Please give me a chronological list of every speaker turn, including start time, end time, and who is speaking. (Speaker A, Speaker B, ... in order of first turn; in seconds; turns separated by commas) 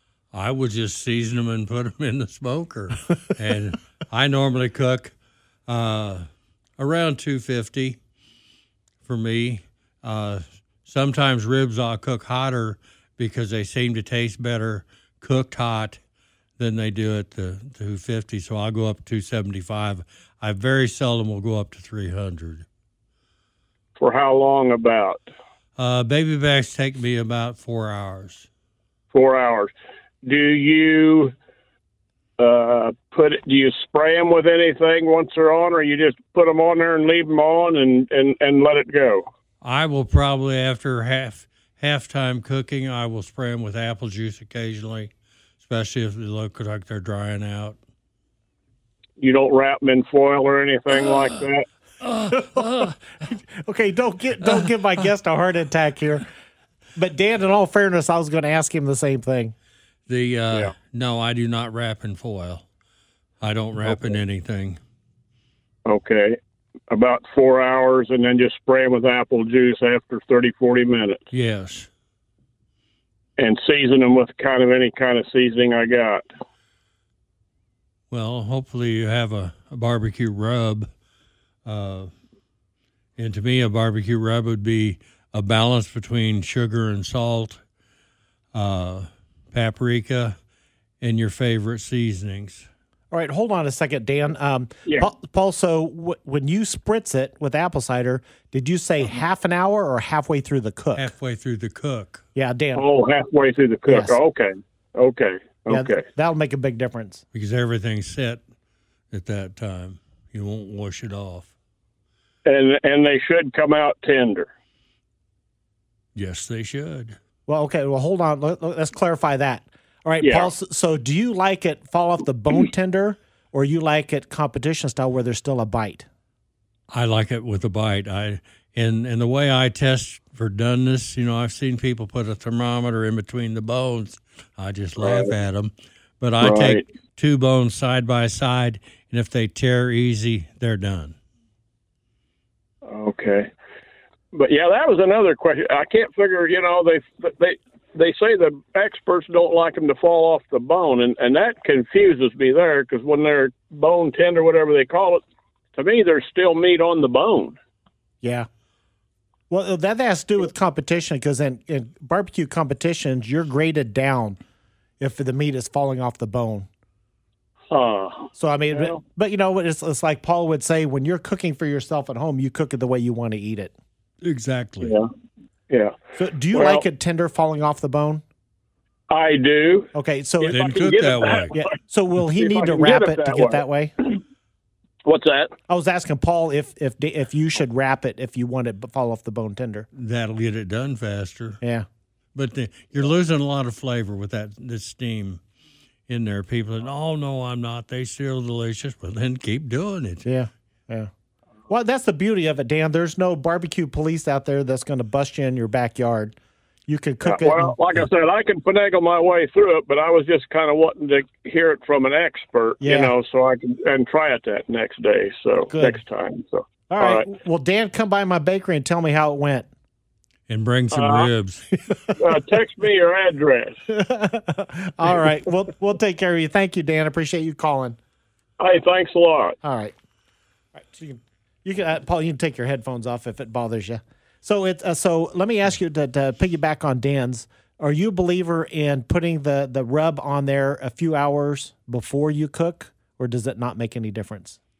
Speaker A: 0.3-5.1, Speaker A: 5.7-8.0, Speaker A: 9.0-16.0, Speaker A: 16.6-22.6, Speaker B: 24.0-25.2, Speaker A: 25.8-28.5, Speaker B: 29.1-29.7, Speaker B: 30.2-31.3, Speaker B: 32.4-39.2, Speaker A: 39.6-47.8, Speaker B: 49.2-51.7, Speaker A: 50.9-51.5, Speaker A: 52.0-53.0, Speaker C: 52.3-56.3, Speaker A: 54.4-54.7, Speaker C: 56.9-59.5, Speaker A: 60.1-62.7, Speaker A: 63.4-64.8, Speaker B: 65.8-66.4, Speaker B: 66.9-71.2, Speaker A: 71.3-71.9, Speaker B: 73.4-76.2, Speaker A: 78.1-80.9, Speaker A: 81.6-82.1, Speaker A: 83.2-87.6, Speaker A: 88.5-90.4, Speaker A: 91.0-92.7, Speaker C: 93.1-101.1, Speaker A: 100.9-102.2, Speaker C: 102.3-102.8, Speaker B: 102.8-106.0, Speaker C: 103.8-104.2, Speaker C: 105.7-107.2, Speaker A: 107.3-108.4, Speaker A: 109.1-111.5, Speaker B: 112.4-114.5, Speaker A: 116.1-117.2, Speaker C: 117.5-126.1, Speaker B: 120.2-120.5, Speaker A: 126.9-141.2, Speaker B: 135.0-135.3, Speaker B: 136.4-136.8, Speaker B: 142.8-143.5, Speaker B: 144.3-155.2, Speaker B: 155.8-157.6, Speaker C: 158.2-158.5, Speaker C: 159.5-164.4, Speaker C: 165.0-166.7, Speaker B: 167.7-169.0, Speaker C: 168.3-173.7, Speaker A: 174.2-175.0, Speaker B: 174.8-175.1, Speaker B: 175.7-176.0, Speaker C: 176.2-178.2, Speaker B: 176.5-176.8, Speaker B: 179.1-184.2, Speaker C: 179.9-180.6, Speaker A: 180.5-181.5, Speaker C: 181.5-183.9, Speaker B: 185.0-185.5, Speaker C: 185.7-189.9, Speaker A: 189.9-191.6, Speaker A: 192.3-195.4, Speaker A: 196.1-200.2, Speaker C: 200.2-201.1, Speaker C: 201.7-206.3, Speaker C: 206.9-207.8, Speaker B: 207.2-217.2, Speaker C: 212.8-213.1, Speaker C: 215.7-216.0, Speaker C: 216.9-219.7, Speaker A: 220.5-222.0, Speaker B: 220.9-221.3, Speaker C: 221.9-222.1, Speaker B: 222.2-223.8, Speaker C: 223.9-228.0, Speaker B: 228.6-229.6, Speaker C: 229.6-229.9, Speaker C: 230.8-244.6